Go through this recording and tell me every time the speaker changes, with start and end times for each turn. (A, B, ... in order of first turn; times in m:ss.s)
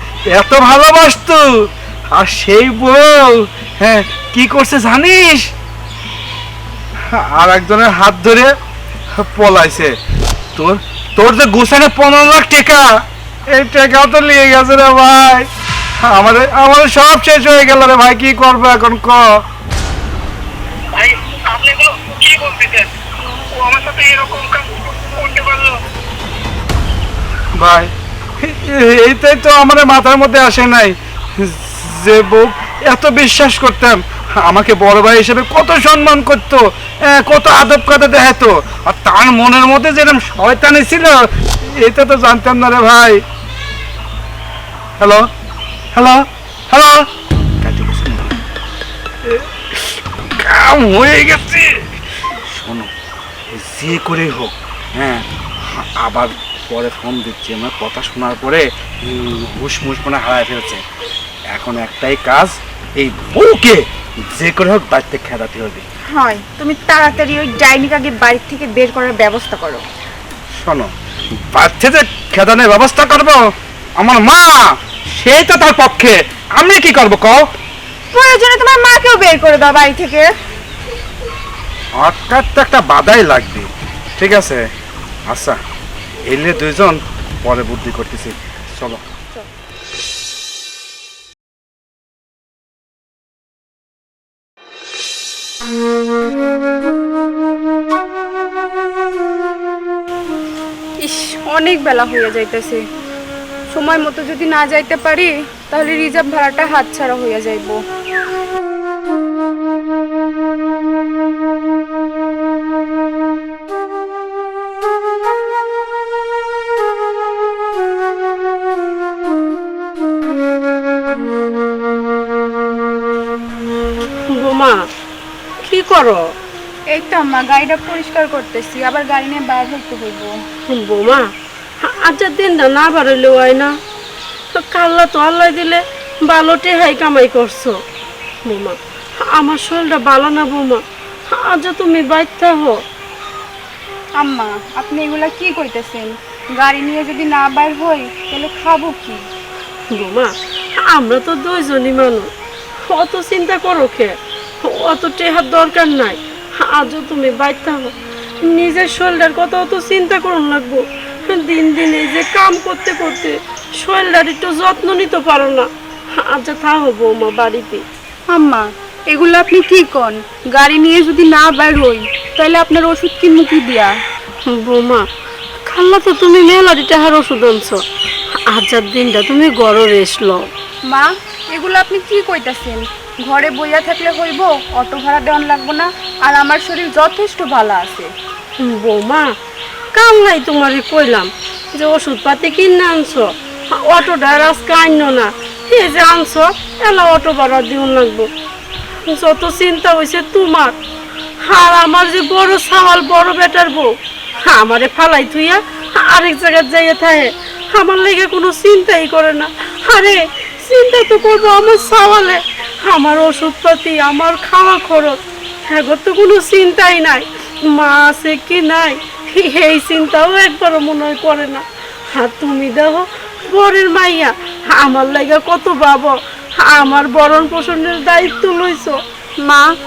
0:00.3-0:05.5 A
0:07.1-0:08.5 A
0:09.2-0:10.0 A
0:10.6-0:12.9 A
0:13.5-0:15.5 A
0:16.0-0:19.2 A
0:21.0-0:22.9 B
0:23.6-0:25.8 B
0:27.6-0:43.2 A
0:45.0-0:45.3 A
0:45.9-0:47.1 A
0:47.6-0:48.4 A
0:49.2-0:51.7 A
0:52.3-0:52.9 A
0:53.5-1:00.8 A
1:01.5-1:05.9 A
1:06.1-1:09.9 C
1:10.6-1:13.4 A
1:14.0-1:17.4 A
1:18.1-1:20.3 C
1:22.0-1:24.6 A
1:25.3-1:25.6 A
1:26.3-1:29.0 A
1:41.0-1:42.8 D
1:43.7-1:47.8 D
2:04.3-2:04.8 E
2:05.6-2:06.2 E
2:06.9-2:10.3 D
2:10.7-2:11.3 E
2:11.8-2:13.7 E
2:14.6-2:17.8 E
2:18.5-2:22.8 E
2:24.2-2:29.2 D
2:29.9-2:32.3 E
2:32.9-2:47.8 E
2:48.3-2:54.0 D
2:54.5-2:55.1 E
2:55.7-2:57.8 E
2:58.5-3:00.5 E
3:00.9-3:08.1 D
3:08.6-3:09.3 E
3:09.9-3:18.3 E
3:19.1-3:20.8 E
3:21.4-3:23.9 E
3:24.5-3:49.0 E